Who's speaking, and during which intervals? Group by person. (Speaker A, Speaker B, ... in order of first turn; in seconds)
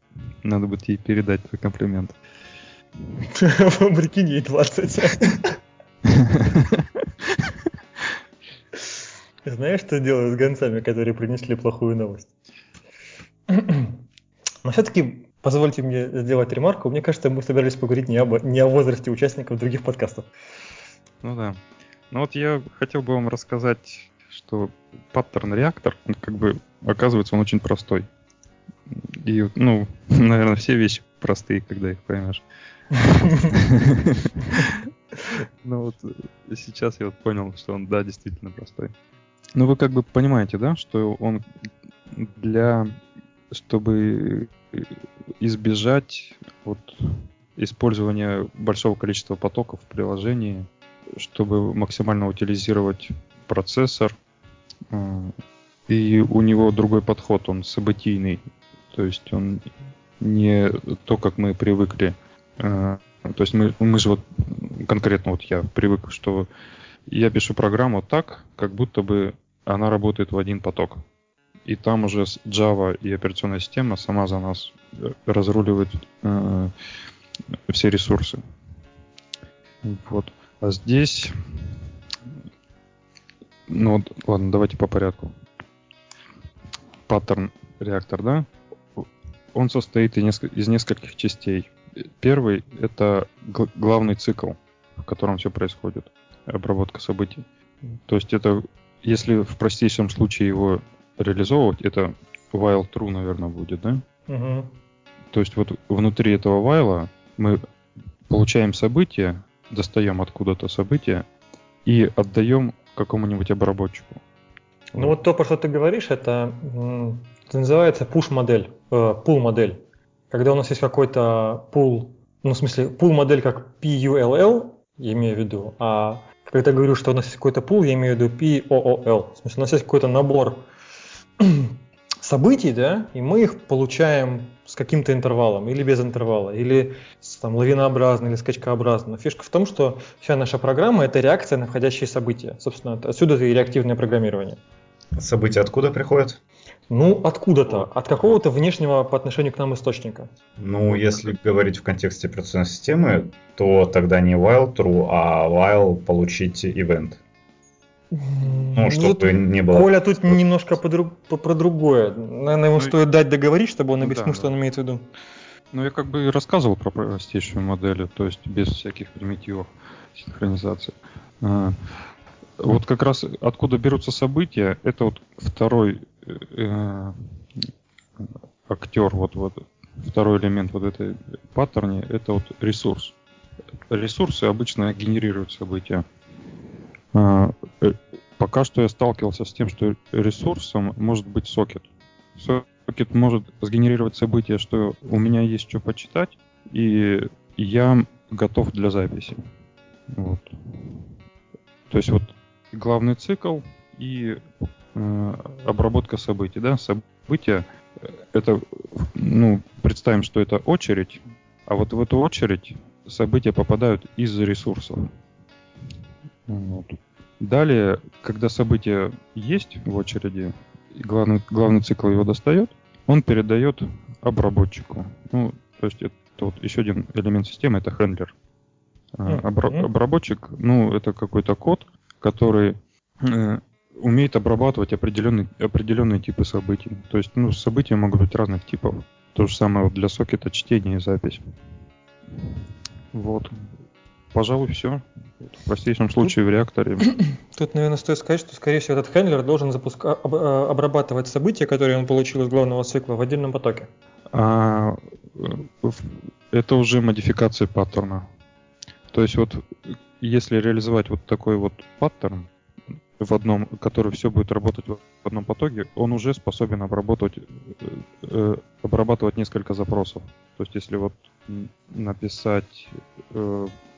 Speaker A: 0.4-2.1, 6.1-7.4, 21.2-21.6, 22.1-28.1, 28.9-32.4, 32.9-34.8, 35.6-38.9, 39.5-41.4, 42.1-42.9, 43.5-54.1, 54.9-55.4, 55.9-66.5, 67.1-71.0, 71.7-76.7, 77.7-78.4, 79.8-81.4, 83.7-85.3, 87.1-97.4, 98.0-104.0, 105.3-107.6, 108.3-111.2, 111.8-114.2, 164.0-164.5, 165.7-171.8, 172.6-177.7, 178.2-183.1, 183.9-186.1, 187.1-199.4, 200.1-201.1, 201.9-215.1, 216.5-228.3, 229.2-241.4, 243.1-243.7, 244.3-247.1, 254.3-258.2, 259.1-262.5, 263.2-273.7
Speaker B: 3.3-5.6, 9.4-12.3, 13.5-14.0, 14.6-20.3, 33.2-33.5, 104.3-104.7, 114.9-130.7, 131.4-144.6, 146.9-150.3, 158.1-165.1, 229.2-229.9, 247.5-253.9
Speaker C: 145.2-146.4, 150.6-157.2, 158.7-160.4